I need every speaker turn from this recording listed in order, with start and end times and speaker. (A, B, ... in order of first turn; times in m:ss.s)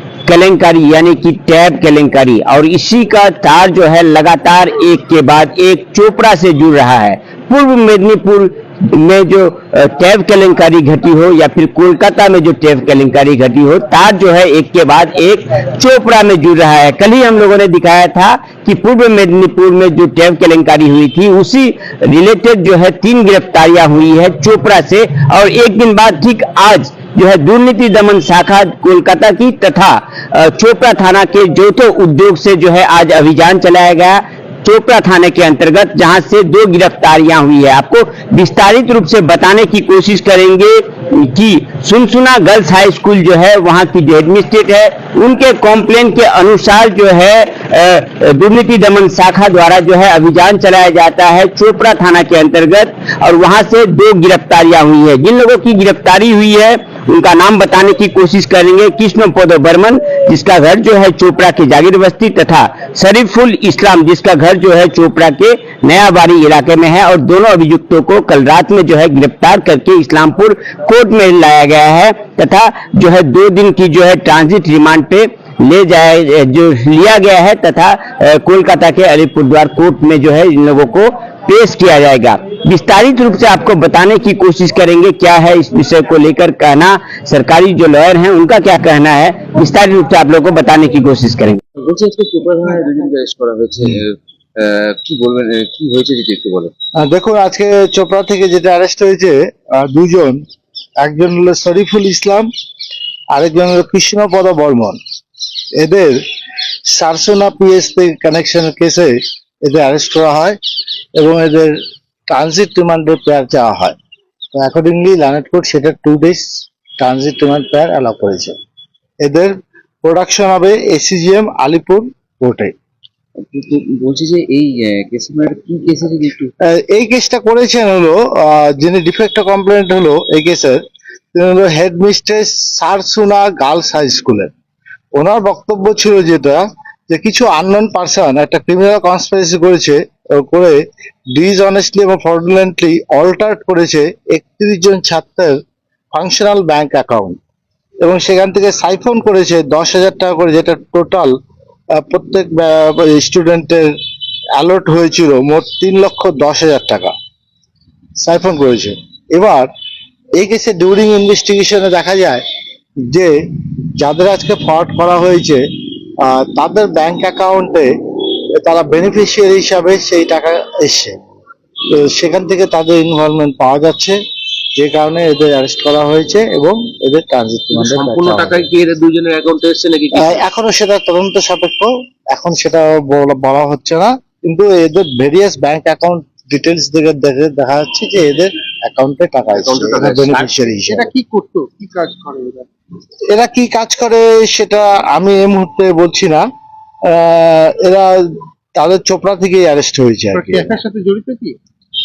0:00.3-1:31.6 A
1:31.8-1:36.7 B
1:37.0-1:40.4 C
1:41.0-1:42.5 C
1:43.3-1:45.0 C
1:45.8-1:46.2 C
1:46.9-1:50.6 C
1:51.2-1:51.8 C
1:52.3-1:54.0 C
1:54.6-1:58.6 C
1:59.2-2:02.7 C
2:03.4-2:06.5 B
2:06.7-2:10.8 C
2:11.3-2:14.5 C
2:15.2-2:20.8 C
2:21.3-2:25.6 C
2:26.1-2:27.4 C
2:28.0-2:31.3 C
2:32.0-2:33.9 C
2:34.6-2:37.1 C
2:38.2-2:39.7 C
2:40.4-2:42.4 C
2:44.0-2:45.6 C
2:46.2-2:47.9 C
2:48.6-2:51.2 C
2:51.9-2:54.2 C
2:54.8-2:58.7 C
2:57.7-3:00.4 B
3:00.1-3:11.1 C
3:09.6-3:10.6 B
3:10.9-3:12.7 D
3:13.3-3:16.5 C
3:17.1-3:20.8 C
3:20.3-3:21.6 D